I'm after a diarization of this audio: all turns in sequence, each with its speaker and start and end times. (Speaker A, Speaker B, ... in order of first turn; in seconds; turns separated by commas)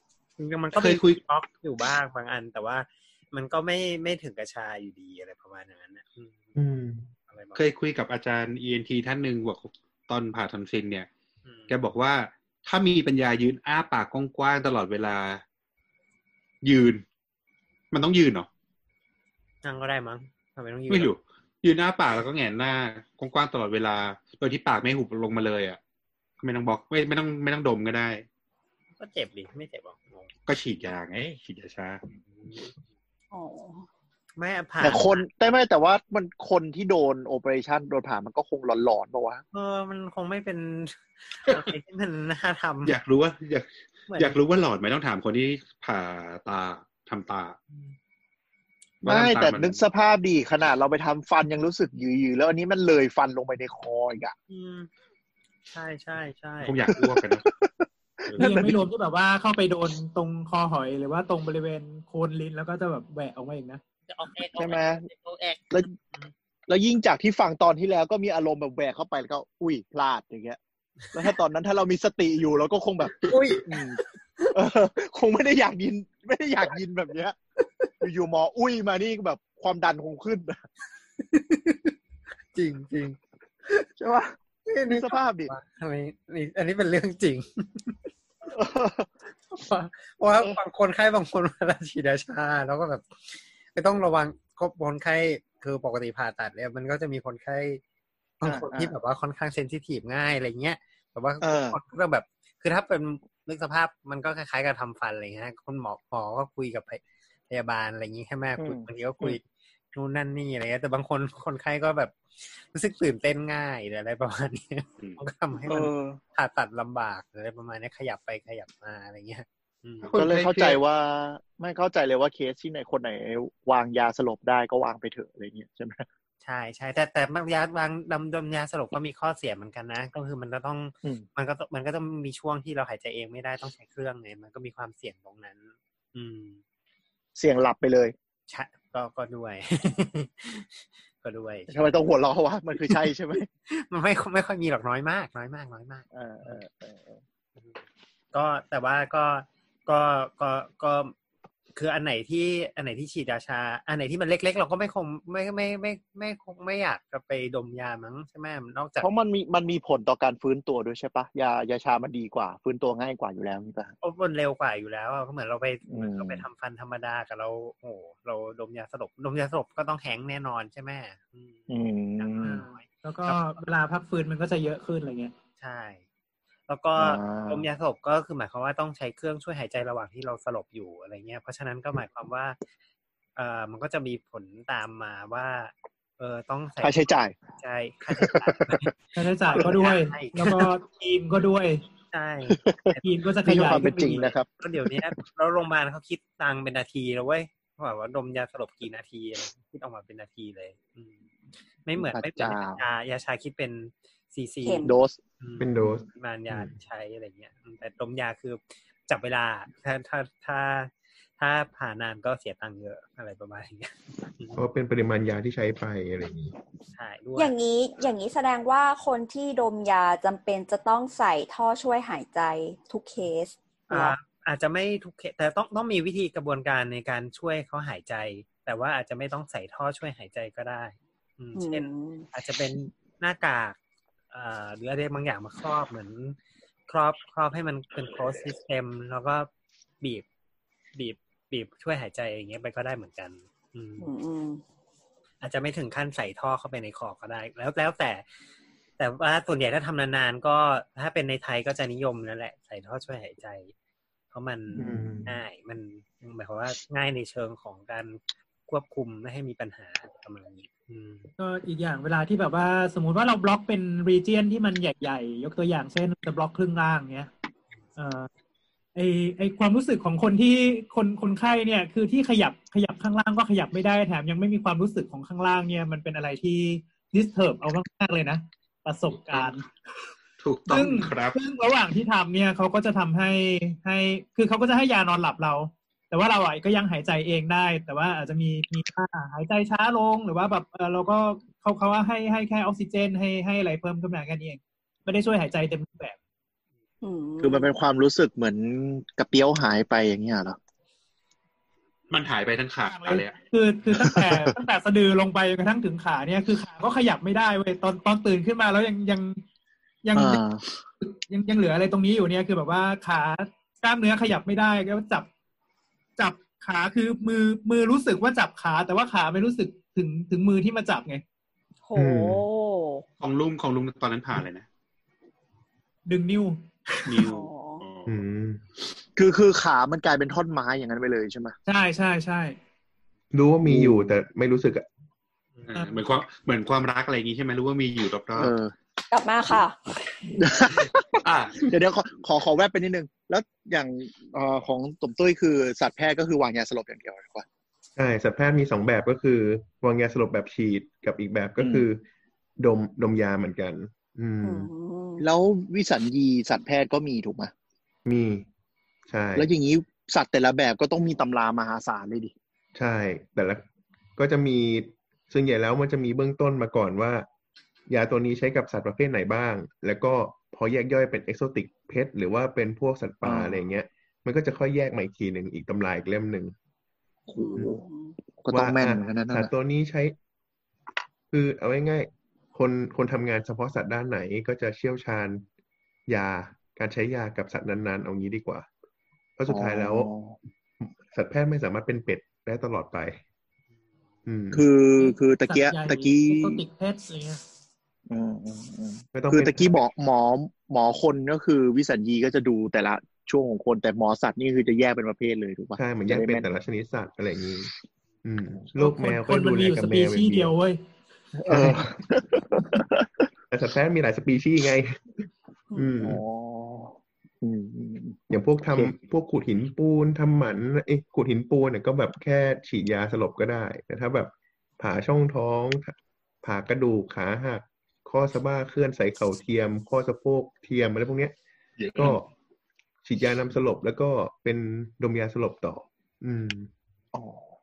Speaker A: 0.4-6.5, Speaker B: 0.7-1.2, Speaker C: 6.6-7.1, Speaker A: 7.3-7.6, Speaker B: 7.5-11.1, Speaker A: 11.4-11.7, Speaker B: 11.7-15.4, Speaker B: 16.6-17.0, Speaker B: 17.9-18.5, Speaker A: 19.6-21.1, Speaker B: 20.9-25.8, Speaker B: 26.4-28.2, Speaker A: 29.0-30.3, Speaker B: 30.5-32.0, Speaker A: 32.4-32.7, Speaker D: 33.3-33.9, Speaker A: 34.4-35.3, Speaker E: 34.8-39.4, Speaker A: 39.5-43.0, Speaker B: 42.9-47.6, Speaker A: 44.1-44.4, Speaker B: 49.0-49.8, Speaker E: 49.0-54.4, Speaker A: 54.5-54.9, Speaker A: 55.7-56.9, Speaker B: 56.6-57.5, Speaker E: 56.9-58.8, Speaker F: 58.4-63.8, Speaker A: 64.1-66.3, Speaker E: 64.5-65.1, Speaker E: 66.7-70.6, Speaker E: 71.1-74.0, Speaker A: 73.2-74.0, Speaker E: 74.5-77.4, Speaker E: 78.0-80.6, Speaker A: 81.3-81.9, Speaker A: 82.5-83.2, Speaker E: 84.0-85.5, Speaker A: 84.7-88.0, Speaker E: 88.5-89.1, Speaker A: 89.5-93.0, Speaker A: 93.8-97.8, Speaker A: 98.4-120.1, Speaker E: 98.4-98.9, Speaker E: 101.4-101.8, Speaker E: 108.6-109.4, Speaker E: 115.7-116.2, Speaker B: 120.0-120.8, Speaker E: 120.2-126.1, Speaker A: 126.4-136.6, Speaker E: 137.4-138.2, Speaker A: 138.5-141.9, Speaker E: 141.7-143.5, Speaker A: 143.7-146.6, Speaker E: 146.1-147.2, Speaker A: 147.6-151.1, Speaker A: 151.8-159.1, Speaker E: 159.0-163.9, Speaker A: 164.0-173.5, Speaker E: 165.9-166.4, Speaker E: 171.7-172.6, Speaker F: 172.4-175.3, Speaker A: 175.6-176.1, Speaker A: 176.7-182.6, Speaker E: 177.0-177.7, Speaker A: 183.4-187.1, Speaker E: 186.8-187.4, Speaker A: 187.6-188.9, Speaker E: 188.1-188.9, Speaker F: 189.2-191.8, Speaker A: 189.4-190.5, Speaker E: 189.5-189.8, Speaker A: 192.1-201.2, Speaker E: 192.5-195.0, Speaker F: 193.0-194.2, Speaker A: 201.8-214.6, Speaker E: 202.0-202.8, Speaker D: 204.6-204.9, Speaker E: 204.8-205.2, Speaker C: 205.6-206.1, Speaker C: 214.6-216.5, Speaker A: 216.9-217.5, Speaker D: 217.4-224.2, Speaker A: 223.9-233.8, Speaker D: 231.6-232.2, Speaker A: 234.3-236.4, Speaker A: 236.9-239.5, Speaker A: 240.9-244.1, Speaker D: 244.0-244.6, Speaker A: 245.4-248.2, Speaker A: 249.0-253.7, Speaker A: 254.3-261.3, Speaker C: 254.7-255.4, Speaker F: 261.4-267.3, Speaker F: 268.0-268.3, Speaker F: 268.9-279.7, Speaker B: 280.4-281.4, Speaker F: 280.7-296.2, Speaker D: 297.0-297.7, Speaker E: 297.4-300.6, Speaker B: 302.1-303.4, Speaker F: 302.9-309.4, Speaker E: 303.9-304.6, Speaker F: 310.0-310.4, Speaker E: 310.1-310.7, Speaker F: 311.0-315.3, Speaker F: 316.2-321.2, Speaker D: 321.9-323.0, Speaker C: 321.9-322.4, Speaker B: 323.2-324.7, Speaker F: 326.1-327.3, Speaker B: 327.1-328.2, Speaker D: 327.2-327.8, Speaker C: 328.1-328.6, Speaker E: 329.2-331.6, Speaker F: 331.7-332.6, Speaker C: 333.3-334.9, Speaker E: 333.6-334.2, Speaker B: 335.7-338.5, Speaker F: 335.8-336.1, Speaker E: 338.4-338.7, Speaker D: 339.1-339.8, Speaker E: 340.3-347.5, Speaker B: 341.2-341.7, Speaker C: 348.0-352.0, Speaker E: 351.6-351.9, Speaker C: 352.6-354.7, Speaker D: 354.4-355.2, Speaker E: 355.2-357.5, Speaker C: 358.1-358.5, Speaker C: 359.1-359.5, Speaker E: 359.4-362.3, Speaker C: 362.8-363.6, Speaker C: 364.2-367.3, Speaker C: 367.9-376.6, Speaker E: 373.2-373.6, Speaker E: 377.3-377.8, Speaker D: 377.4-378.1, Speaker E: 378.4-379.5, Speaker C: 378.5-380.2, Speaker C: 381.3-385.4, Speaker C: 386.1-388.7, Speaker C: 389.4-390.1, Speaker E: 389.5-390.4, Speaker C: 390.8-393.2, Speaker C: 394.3-394.7, Speaker E: 394.5-396.6, Speaker F: 395.0-397.4, Speaker E: 398.1-406.5, Speaker C: 399.1-399.8, Speaker C: 405.8-407.7, Speaker C: 408.2-410.5, Speaker F: 408.8-410.8, Speaker E: 411.4-413.1, Speaker C: 411.5-411.9, Speaker C: 413.5-415.1, Speaker C: 415.8-416.2, Speaker E: 416.0-418.2, Speaker C: 418.3-431.4, Speaker B: 431.8-432.2, Speaker C: 432.0-432.3, Speaker C: 433.1-436.7, Speaker E: 437.1-437.5